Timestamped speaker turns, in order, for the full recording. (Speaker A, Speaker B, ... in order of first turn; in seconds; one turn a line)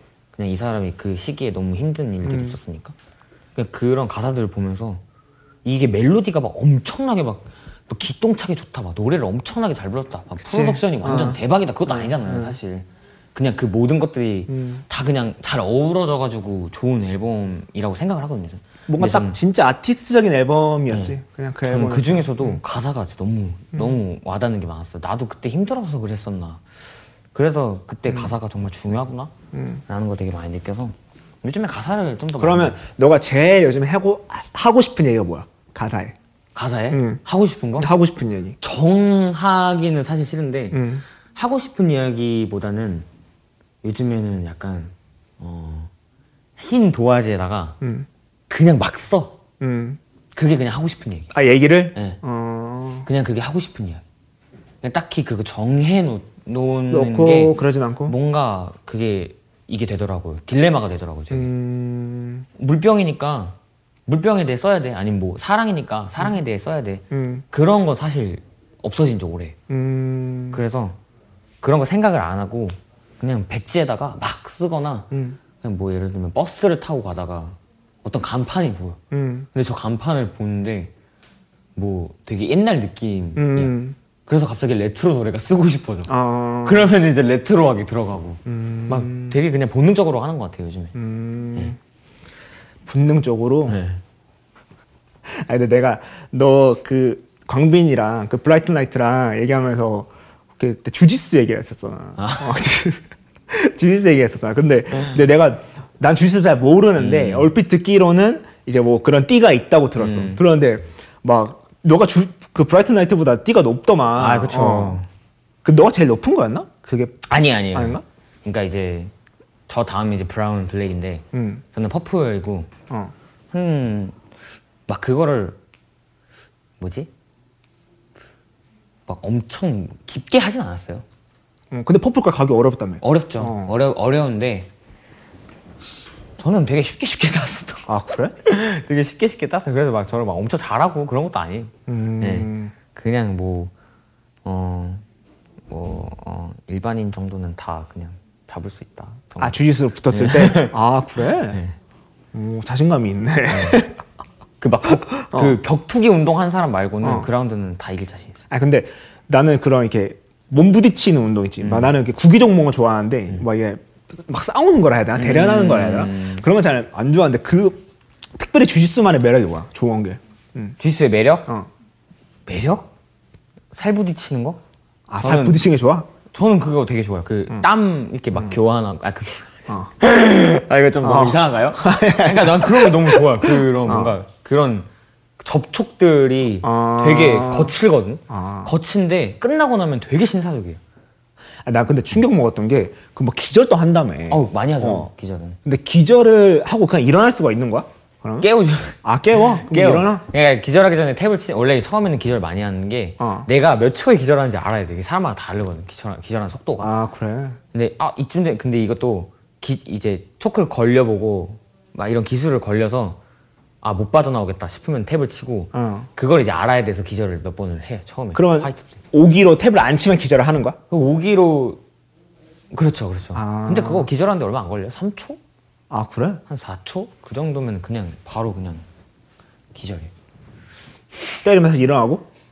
Speaker A: 0.3-2.9
Speaker B: 2.2-2.6
Speaker A: 3.6-5.0
Speaker A: 5.6-19.4
Speaker B: 10.4-12.6
Speaker B: 14.5-14.8
Speaker B: 18.9-22.6
Speaker A: 20.9-26.6
Speaker A: 27.3-29.3
Speaker B: 28.1-28.3
Speaker B: 29.5-29.8
Speaker A: 29.9-32.8
Speaker B: 32.4-36.2
Speaker A: 36.5-37.9
Speaker B: 36.9-37.2
Speaker B: 37.8-38.6
Speaker A: 38.6-40.8
Speaker B: 40.7-41.0
Speaker A: 41.3-43.1
Speaker A: 43.8-45.9
Speaker A: 46.6-47.8
Speaker B: 47.8-48.1
Speaker A: 48.5-49.4
Speaker B: 49.6-50.0
Speaker A: 50.4-51.3
Speaker B: 51.3-53.1
Speaker A: 52.0-52.2
Speaker A: 53.0-54.0
Speaker A: 54.8-61.5
Speaker B: 56.9-58.1
Speaker B: 61.3-62.5
Speaker A: 62.6-69.6
Speaker B: 67.1-67.5
Speaker B: 69.7-70.6
Speaker A: 70.5-71.0
Speaker A: 71.6-79.0
Speaker B: 75.1-75.4
Speaker B: 79.1-79.5
Speaker A: 79.5-80.9
Speaker A: 81.8-91.0
Speaker B: 83.4-84.0
Speaker B: 86.1-86.9
Speaker B: 88.5-89.4
Speaker B: 90.9-91.8
Speaker B: 92.9-93.8
Speaker A: 93.7-94.0
Speaker B: 95.3-115.0
Speaker A: 102.2-102.5
Speaker A: 107.0-107.5
Speaker A: 110.0-110.4
Speaker A: 114.2-115.1
Speaker B: 115.6-118.0
Speaker A: 117.3-119.1
Speaker A: 119.7-122.7
Speaker B: 121.3-121.6
Speaker A: 123.5-124.2
Speaker A: 124.9-125.6
Speaker A: 126.8-127.1
Speaker A: 129.1-131.1
Speaker B: 131.7-133.8
Speaker A: 133.0-134.7
Speaker A: 136.4-137.9
Speaker B: 137.9-138.3
Speaker A: 138.4-143.7
Speaker B: 141.9-142.7
Speaker A: 144.4-145.0
Speaker A: 145.7-150.8
Speaker B: 149.4-151.6
Speaker A: 151.4-151.8
Speaker B: 152.3-154.0
Speaker A: 153.5-153.8
Speaker A: 154.6-158.4
Speaker B: 155.1-155.6
Speaker B: 157.0-157.3
Speaker B: 158.5-170.8
Speaker A: 161.6-161.9
Speaker A: 165.2-166.4
Speaker A: 170.8-171.5
Speaker A: 172.4-172.9
Speaker A: 173.7-174.6
Speaker B: 175.1-176.1
Speaker A: 175.2-175.6
Speaker A: 176.3-184.9
Speaker B: 178.3-178.6
Speaker B: 181.0-184.1
Speaker A: 185.4-190.8
Speaker B: 186.6-187.7
Speaker B: 188.3-188.7
Speaker B: 191.6-195.1
Speaker A: 194.3-195.6
Speaker B: 195.6-198.5
Speaker A: 198.4-206.9
Speaker B: 199.0-200.3
Speaker B: 203.2-203.5
Speaker B: 206.8-207.6
Speaker A: 207.7-213.2
Speaker A: 213.8-219.0
Speaker B: 215.7-216.1
Speaker B: 218.3-220.8
Speaker A: 220.9-221.8
Speaker A: 222.7-225.4
Speaker B: 223.3-224.1
Speaker B: 225.9-226.4
Speaker A: 226.5-228.8
Speaker A: 229.7-230.1
Speaker B: 231.4-232.3